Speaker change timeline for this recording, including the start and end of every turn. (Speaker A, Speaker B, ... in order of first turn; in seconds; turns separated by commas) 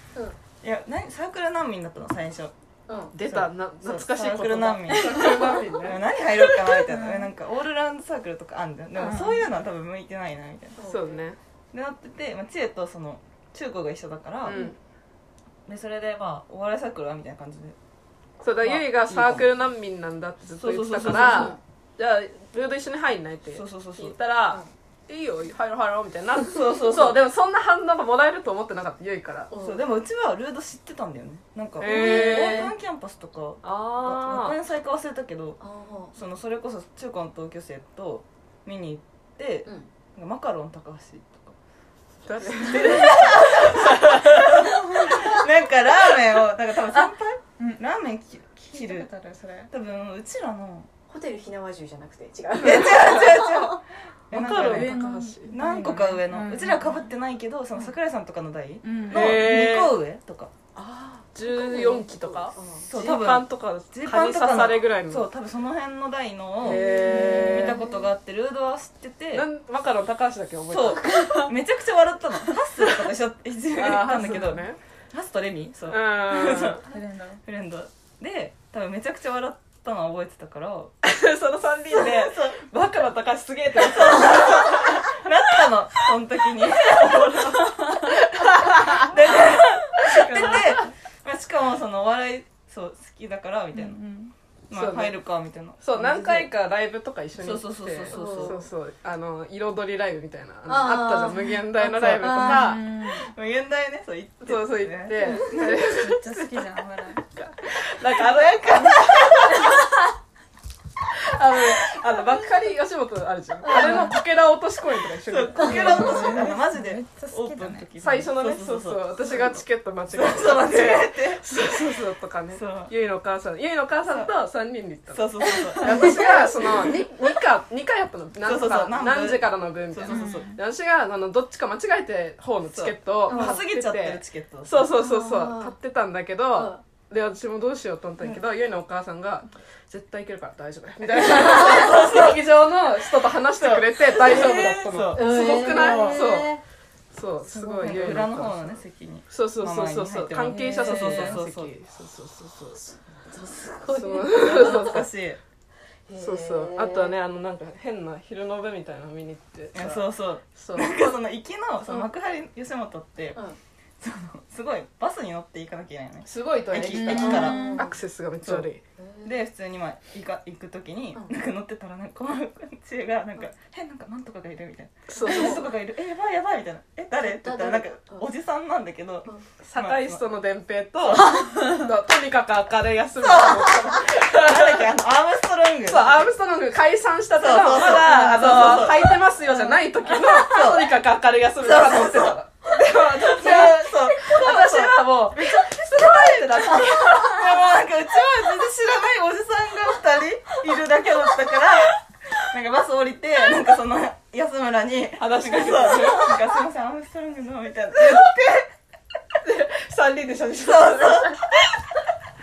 Speaker A: 0.6-2.5, Speaker B: 2.9-3.1, Speaker C: 3.1-6.0, Speaker A: 3.2-10.8, Speaker D: 5.0-5.6, Speaker D: 6.8-7.3, Speaker D: 9.0-9.5, Speaker B: 10.8-11.2, Speaker C: 10.8-11.4, Speaker A: 11.7-14.6, Speaker C: 14.4-14.8, Speaker A: 15.7-17.8, Speaker C: 18.4-29.5, Speaker A: 18.6-19.5, Speaker A: 20.6-21.6, Speaker B: 21.2-21.6, Speaker A: 23.5-24.2, Speaker A: 26.4-27.2, Speaker B: 29.5-29.8, Speaker A: 29.6-35.6, Speaker C: 31.8-32.7, Speaker B: 31.8-32.7, Speaker C: 33.6-34.6, Speaker B: 35.6-36.1, Speaker A: 36.1-41.5, Speaker C: 42.2-43.7, Speaker A: 42.6-49.1, Speaker D: 46.9-47.9, Speaker D: 48.7-49.7, Speaker A: 49.7-50.9, Speaker B: 51.1-53.8, Speaker A: 52.6-55.0, Speaker C: 54.3-55.5, Speaker D: 54.5-57.0, Speaker A: 55.5-60.5, Speaker D: 58.8-59.5, Speaker C: 59.1-60.0, Speaker B: 60.8-62.9, Speaker C: 61.4-65.3, Speaker A: 62.9-69.5, Speaker C: 66.6-67.8, Speaker B: 66.7-67.7, Speaker D: 67.0-67.9, Speaker C: 69.3-71.0, Speaker A: 70.7-76.8, Speaker D: 71.0-71.3, Speaker B: 71.0-71.5, Speaker C: 73.8-74.8, Speaker C: 75.9-76.8, Speaker D: 76.9-77.4, Speaker A: 77.5-81.0, Speaker C: 81.0-85.1, Speaker A: 82.0-82.7, Speaker A: 83.8-87.9, Speaker C: 88.5-89.0, Speaker A: 88.9-94.0, Speaker D: 90.1-90.8, Speaker D: 93.8-94.3, Speaker A: 94.7-96.5, Speaker C: 94.7-95.2, Speaker C: 95.8-102.8, Speaker A: 97.4-98.7, Speaker B: 98.1-98.6, Speaker B: 100.7-101.4, Speaker D: 101.3-101.6, Speaker A: 101.8-105.8, Speaker D: 102.2-103.2, Speaker B: 102.3-102.5, Speaker C: 104.4-106.3, Speaker D: 105.5-107.2, Speaker C: 107.3-109.9, Speaker A: 108.2-109.7, Speaker C: 111.2-116.5, Speaker B: 113.6-114.1, Speaker D: 113.7-114.2, Speaker A: 115.2-119.6, Speaker D: 115.6-117.9, Speaker C: 118.0-125.2, Speaker A: 120.1-121.7, Speaker A: 122.5-122.9, Speaker A: 125.1-126.5, Speaker C: 125.8-146.6, Speaker B: 126.1-126.5, Speaker A: 128.4-130.4, Speaker D: 130.1-130.6, Speaker A: 132.7-134.9, Speaker B: 133.3-133.6, Speaker B: 135.0-135.8, Speaker B: 136.6-136.8, Speaker A: 141.4-142.4, Speaker A: 143.6-146.2, Speaker B: 145.1-146.6, Speaker C: 147.1-152.8, Speaker D: 147.5-148.2, Speaker A: 147.8-151.7, Speaker D: 150.5-151.5, Speaker B: 152.8-155.0, Speaker C: 153.9-155.1, Speaker A: 154.3-155.4, Speaker B: 156.1-157.1, Speaker C: 156.2-161.0, Speaker A: 159.7-163.4, Speaker A: 164.0-167.7, Speaker C: 166.2-168.8, Speaker D: 166.8-167.9, Speaker B: 167.2-167.9, Speaker A: 168.4-168.7, Speaker B: 169.0-169.3, Speaker A: 169.2-180.2, Speaker C: 175.1-175.6, Speaker B: 177.2-178.3, Speaker C: 179.6-184.6, Speaker A: 181.1-181.5, Speaker A: 183.2-186.2, Speaker C: 185.9-197.7, Speaker A: 187.3-190.9, Speaker A: 191.6-192.4, Speaker A: 193.2-201.9, Speaker A: 202.5-208.7, Speaker C: 205.2-206.4, Speaker C: 209.4-211.5, Speaker A: 210.6-211.4